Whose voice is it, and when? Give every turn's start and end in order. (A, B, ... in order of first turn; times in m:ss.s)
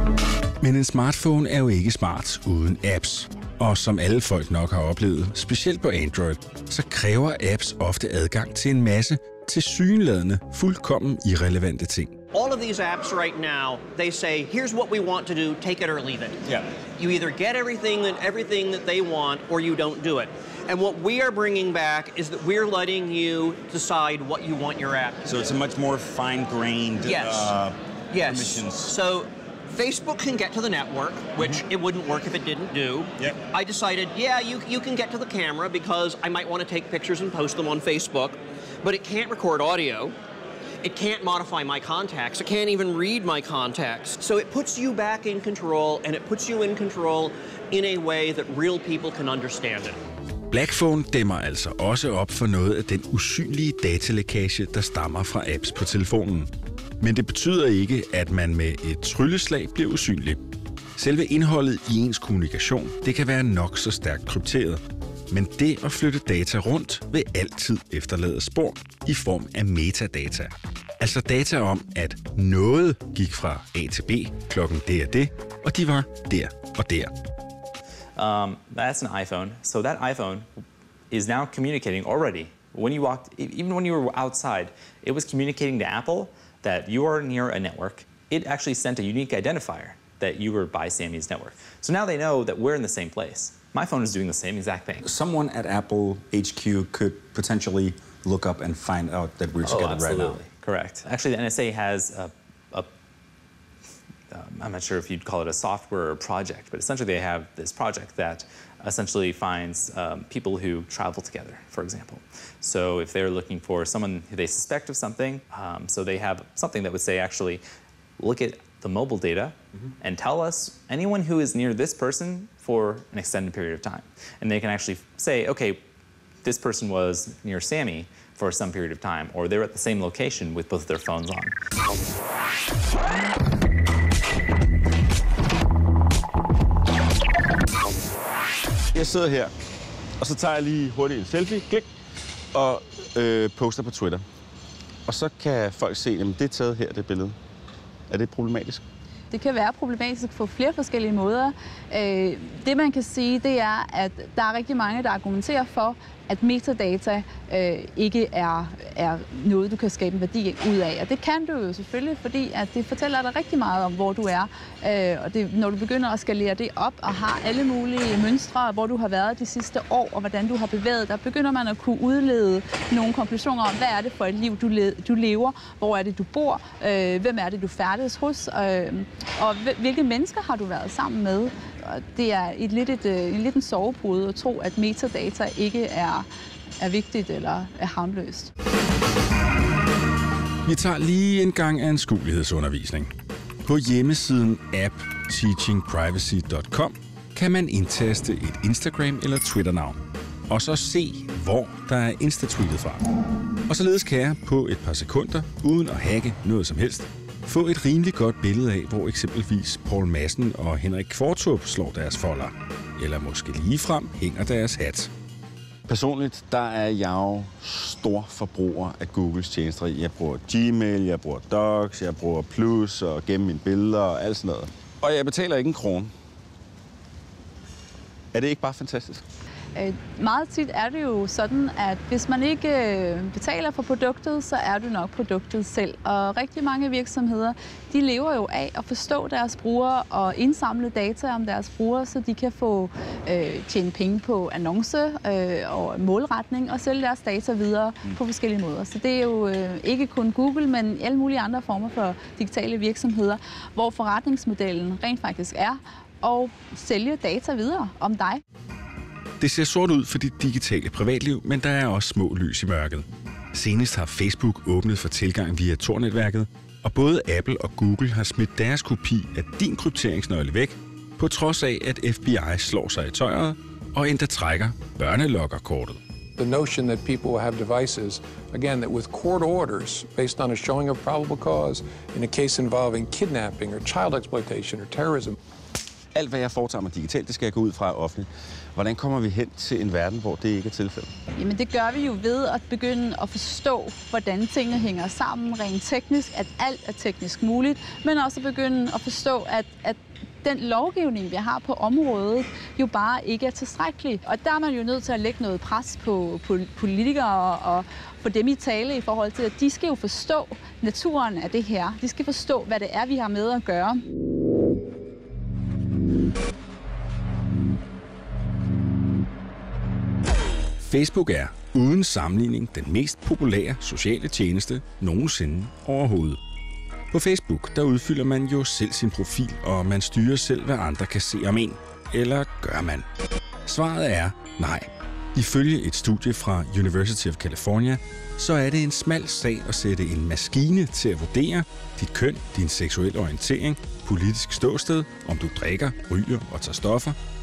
0:00.6-0:12.2 A
0:12.3-0:16.4 B
0:17.0-0:25.3 B
0:25.3-0:29.0 C
0:27.0-0:27.5 B
0:28.1-0:40.2 B
0:40.8-0:50.0 B
0:50.5-1:00.4 A
1:01.0-1:17.1 A
1:18.2-1:20.5 D
1:21.1-1:35.0 D
1:35.0-1:40.4 C
1:39.6-1:42.9 D
1:44.3-1:57.6 D
1:58.2-2:05.8 D
2:06.4-2:11.6 D
2:18.9-2:19.5 C
2:20.2-2:21.9 C
2:22.5-2:24.2 C
2:25.1-2:27.4 C
2:28.1-2:28.8 C
2:29.3-3:06.3 E
3:06.8-3:08.5 E
3:10.6-3:13.1 A
3:13.6-3:23.1 A
3:23.7-3:35.1 A
3:35.9-3:46.1 C
3:48.3-3:49.2 C
3:49.8-4:18.4 E
4:19.4-4:36.0 A
4:36.4-4:45.4 F
4:46.2-4:51.1 C
4:51.4-5:14.0 E
5:20.8-5:26.4 A
5:27.1-5:33.1 A
5:33.7-5:47.2 A